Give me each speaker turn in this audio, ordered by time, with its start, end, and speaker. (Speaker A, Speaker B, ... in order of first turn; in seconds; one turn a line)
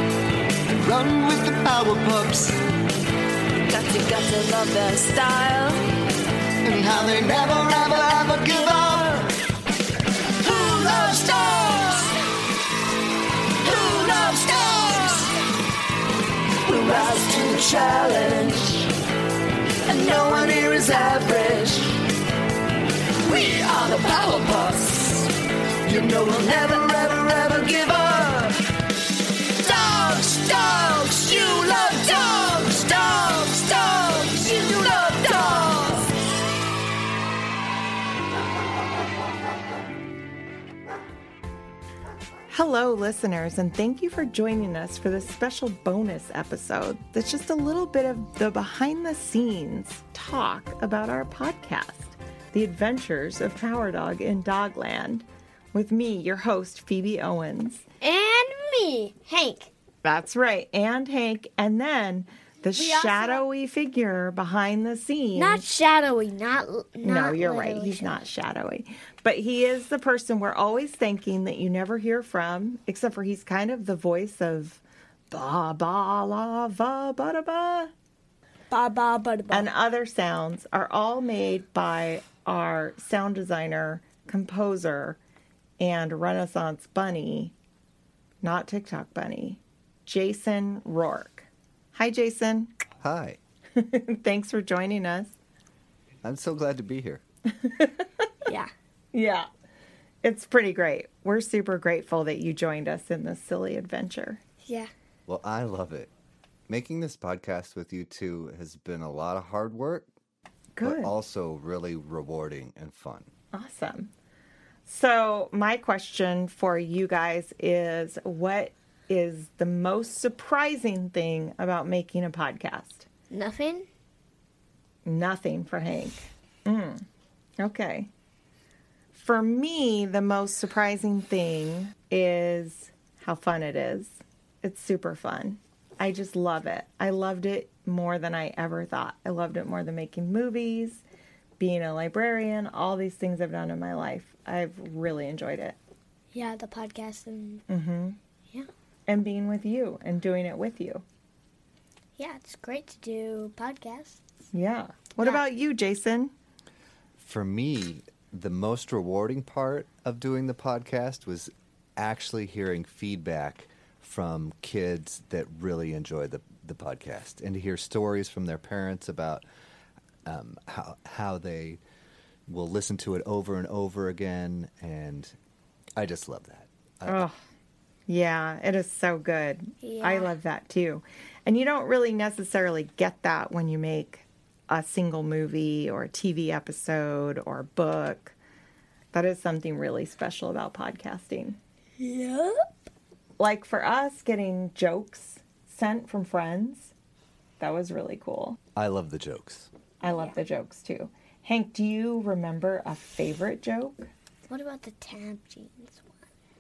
Speaker A: 0.7-2.5
Speaker B: 3.6-5.9
Speaker A: 6.6-9.3
Speaker A: 10.4-12.1
Speaker B: 13.6-14.5
Speaker A: 13.7-15.3
Speaker A: 16.7-18.8
Speaker B: 16.7-17.3
Speaker B: 18.3-18.8
Speaker A: 19.9-21.9
Speaker B: 23.2-25.3
Speaker A: 23.4-24.7
Speaker A: 25.9-28.4
Speaker B: 29.6-30.6
Speaker A: 29.8-32.2
Speaker B: 31.2-36.1
Speaker C: 42.5-57.8
Speaker D: 58.0-59.7
Speaker C: 60.0-65.6
Speaker D: 62.7-63.4
Speaker D: 65.3-68.2
Speaker C: 67.0-77.9
Speaker D: 78.7-79.7
Speaker C: 79.5-85.2
Speaker C: 85.8-87.5
Speaker C: 88.4-92.7
Speaker E: 93.0-93.4
Speaker C: 93.8-95.3
Speaker E: 96.2-97.2
Speaker C: 97.6-98.0
Speaker C: 99.1-99.5
Speaker C: 100.2-104.4
Speaker D: 104.6-104.9
Speaker E: 105.3-106.1
Speaker E: 106.7-110.1
Speaker C: 110.8-111.1
Speaker E: 110.8-113.3
Speaker C: 113.5-114.1
Speaker C: 114.8-123.0
Speaker D: 123.3-123.9
Speaker C: 125.0-127.0
Speaker C: 127.6-128.1
Speaker C: 129.1-141.0
Speaker C: 141.6-145.8
Speaker D: 146.3-147.6
Speaker C: 147.7-148.2
Speaker C: 149.1-151.0
Speaker D: 152.2-154.2
Speaker C: 154.5-156.3
Speaker E: 157.2-169.4
Speaker E: 170.2-171.8
Speaker E: 172.5-175.3
Speaker E: 175.9-177.3
Speaker C: 177.1-177.3
Speaker C: 178.1-188.3
Speaker D: 179.8-180.3
Speaker C: 189.1-191.6
Speaker D: 192.0-192.6
Speaker C: 193.4-196.9
Speaker C: 197.6-198.6
Speaker E: 198.7-199.7
Speaker C: 200.0-204.1
Speaker D: 200.1-200.3
Speaker D: 204.5-206.0